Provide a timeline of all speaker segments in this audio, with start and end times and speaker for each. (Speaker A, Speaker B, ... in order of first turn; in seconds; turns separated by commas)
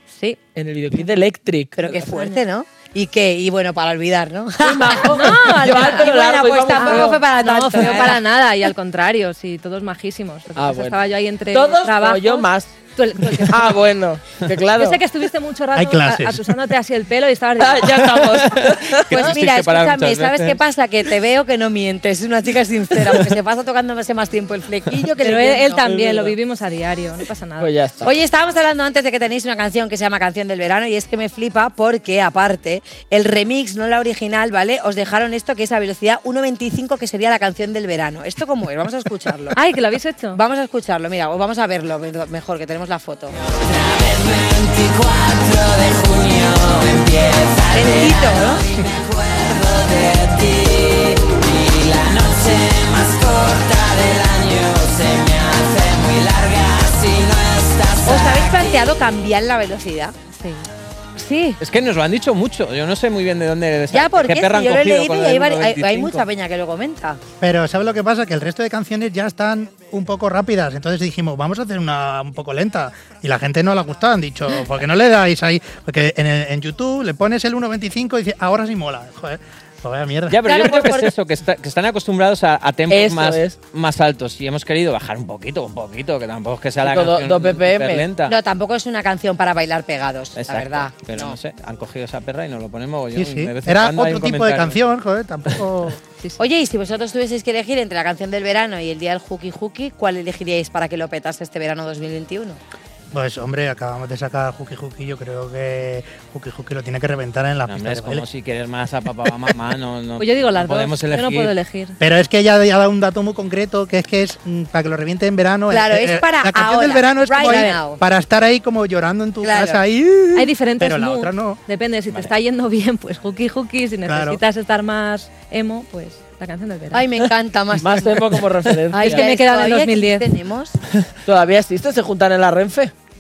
Speaker A: 0.6-2.0, Speaker B: 1.8-8.2, Speaker A: 4.6-7.2, Speaker C: 5.1-6.1, Speaker C: 6.7-13.7, Speaker A: 10.6-11.0, Speaker A: 11.5-12.8, Speaker A: 13.5-15.0, Speaker C: 14.8-18.4, Speaker D: 15.8-16.4, Speaker A: 17.6-19.4, Speaker E: 19.1-20.6, Speaker B: 19.1-25.8, Speaker C: 25.2-27.7, Speaker A: 25.8-26.3, Speaker A: 27.6-28.1, Speaker B: 28.0-39.5, Speaker C: 39.5-40.4, Speaker B: 40.4-43.4, Speaker F: 43.7-58.7, Speaker B: 47.7-48.6, Speaker B: 58.0-60.2, Speaker C: 60.4-60.6, Speaker B: 61.2-61.6, Speaker E: 61.6-66.2, Speaker B: 63.9-67.2, Speaker D: 67.4-80.5, Speaker E: 80.3-88.3, Speaker B: 80.4-81.1, Speaker A: 82.9-83.6, Speaker A: 86.8-88.1, Speaker B: 88.3-91.4, Speaker E: 90.4-94.8, Speaker D: 93.2-96.0, Speaker B: 96.4-102.6, Speaker D: 103.1-108.3, Speaker E: 107.7-111.5, Speaker C: 110.2-112.0, Speaker D: 112.0-121.6, Speaker B: 115.7-118.0, Speaker B: 119.4-119.8, Speaker C: 120.4-127.0, Speaker D: 124.1-124.4, Speaker B: 126.9-128.2, Speaker A: 127.8-129.3, Speaker B: 128.9-130.8, Speaker C: 129.0-130.3, Speaker A: 131.3-132.9